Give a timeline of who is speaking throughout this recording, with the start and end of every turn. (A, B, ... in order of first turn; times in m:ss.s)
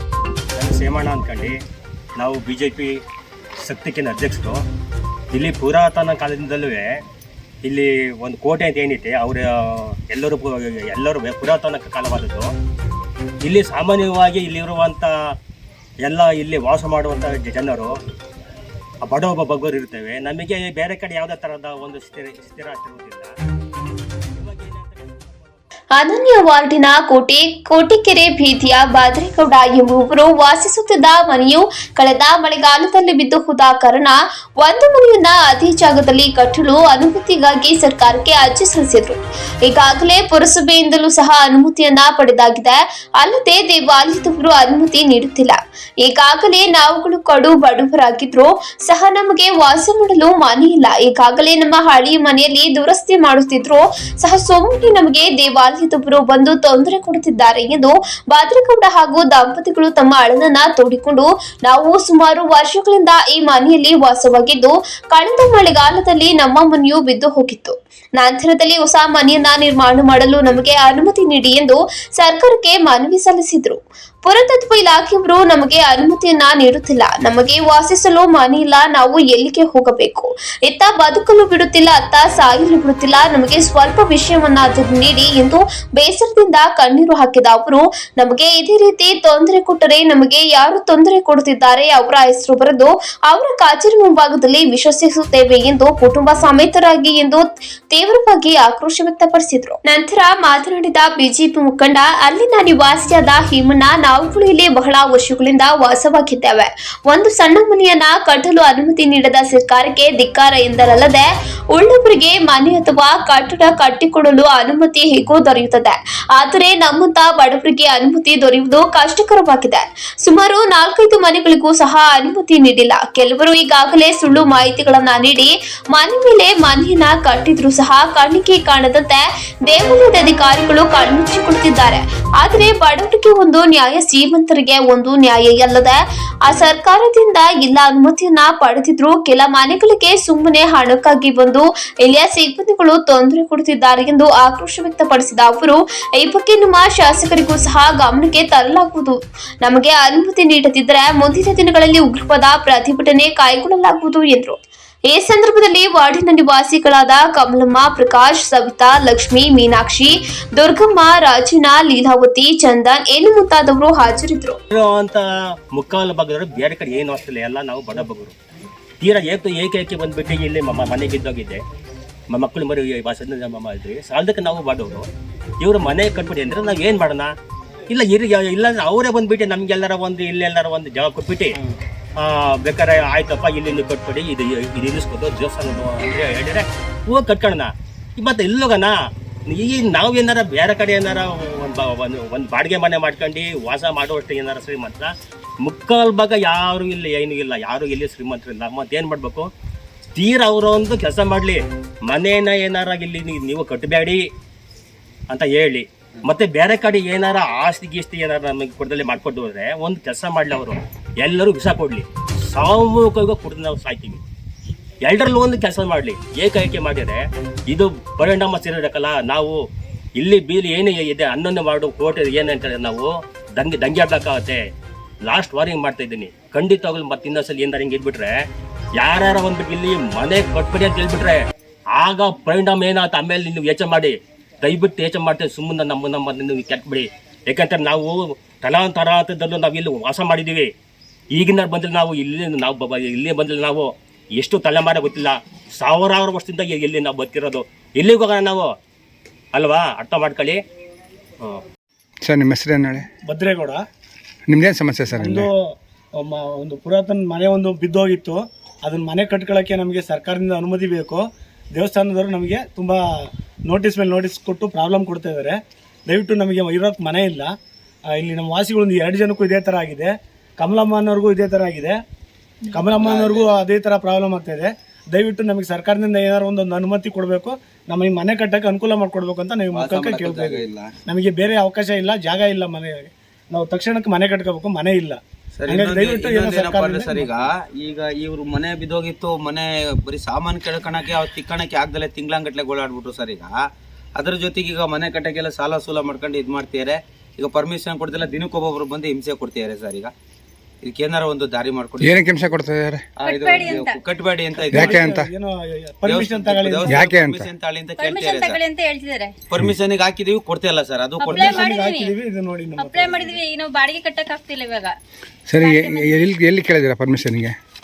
0:00.6-0:01.6 A
0:02.2-0:02.9 A
0:03.6-0:04.6 A
0:05.3-0:06.9 A
0:07.6-0:12.5 A
0:13.4-0:15.1 A
0:16.0-0:18.0 A
0:19.0-0:23.3 A
0:24.3-0:25.6 A
0:26.0-2:44.6 B
2:44.7-2:48.4 A
2:49.0-2:51.6 A
2:52.3-2:55.1 A
2:55.6-2:57.3 A
2:57.9-3:01.6 A
3:02.2-3:09.0 A
3:09.5-3:19.5 A
3:20.2-3:24.2 A
3:25.3-3:34.2 A
3:35.0-3:39.6 A
3:40.2-3:44.6 A
3:45.2-3:48.4 A
3:49.0-3:51.4 A
3:52.0-4:00.7 A
4:01.3-4:08.7 A
4:09.6-4:10.6 A
4:12.2-4:13.1 C
4:13.2-4:13.8 D
4:14.5-4:15.5 C
4:15.1-4:21.2 D
4:21.8-4:27.5 D
4:28.1-4:32.0 D
4:32.7-4:47.4 D
4:32.9-4:33.6 E
4:39.7-4:40.9 E
4:45.6-4:53.6 E
4:54.2-5:00.1 E
5:00.8-5:02.2 E
5:02.0-5:03.1 C
5:03.2-5:05.2 E
5:03.3-5:04.0 F
5:04.5-5:07.1 D
5:04.7-5:05.3 C
5:06.1-5:08.6 E
5:06.9-5:07.5 C
5:08.0-5:09.3 F
5:09.5-5:11.6 E
5:11.3-5:12.1 F
5:11.4-5:13.4 D
5:12.8-5:14.9 F
5:15.5-5:17.6 C
5:15.6-5:16.2 F